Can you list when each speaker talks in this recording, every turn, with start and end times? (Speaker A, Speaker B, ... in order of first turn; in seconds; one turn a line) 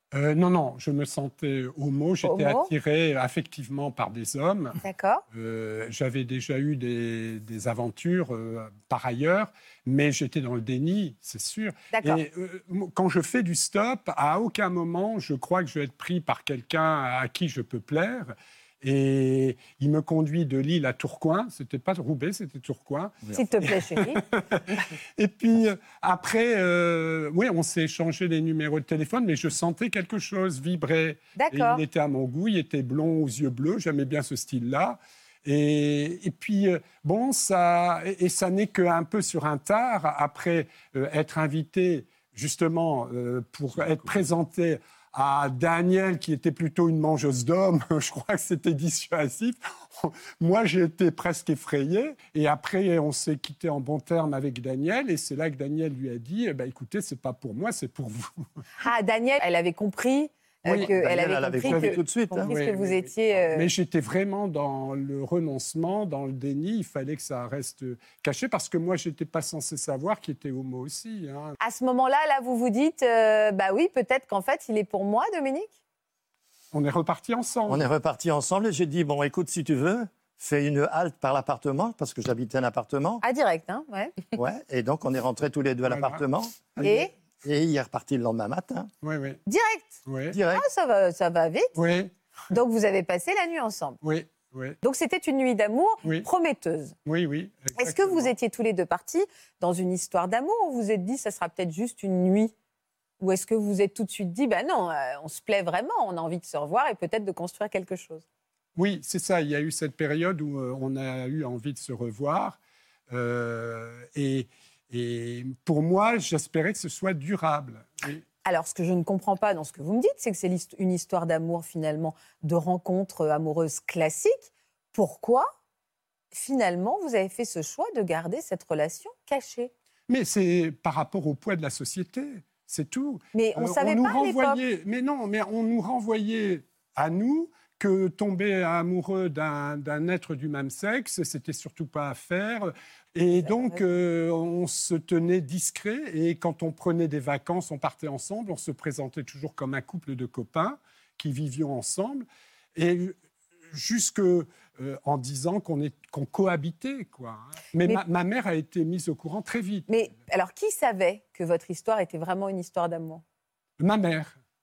Speaker A: 0.1-4.8
Speaker B: 2.2-2.7
Speaker B: 4.8-5.2
Speaker A: 5.3-58.5
Speaker B: 11.9-12.2
Speaker B: 23.3-24.2
Speaker B: 31.4-31.8
Speaker B: 58.8-63.7
Speaker A: 60.7-60.9
Speaker C: 60.9-62.5
Speaker A: 61.6-71.6
Speaker B: 71.6-75.8
Speaker A: 76.7-77.8
Speaker C: 77.7-83.2
Speaker B: 83.2-84.2
Speaker C: 84.3-88.9
Speaker A: 85.9-86.2
Speaker B: 86.8-87.1
Speaker A: 89.0-89.4
Speaker B: 89.5-91.7
Speaker A: 90.1-90.4
Speaker C: 90.3-90.7
Speaker A: 91.8-92.1
Speaker B: 92.5-94.0
Speaker A: 94.0-94.8
Speaker B: 94.8-97.0
Speaker A: 97.1-98.3
Speaker B: 97.8-102.5
Speaker B: 103.2-108.2
Speaker A: 108.8-112.6
Speaker A: 113.1-118.2
Speaker B: 118.5-125.5
Speaker B: 126.3-129.7
Speaker A: 130.1-153.2
Speaker B: 133.3-134.6
Speaker B: 143.4-143.8
Speaker A: 153.7-159.9
Speaker B: 159.9-163.2
Speaker A: 163.8-164.3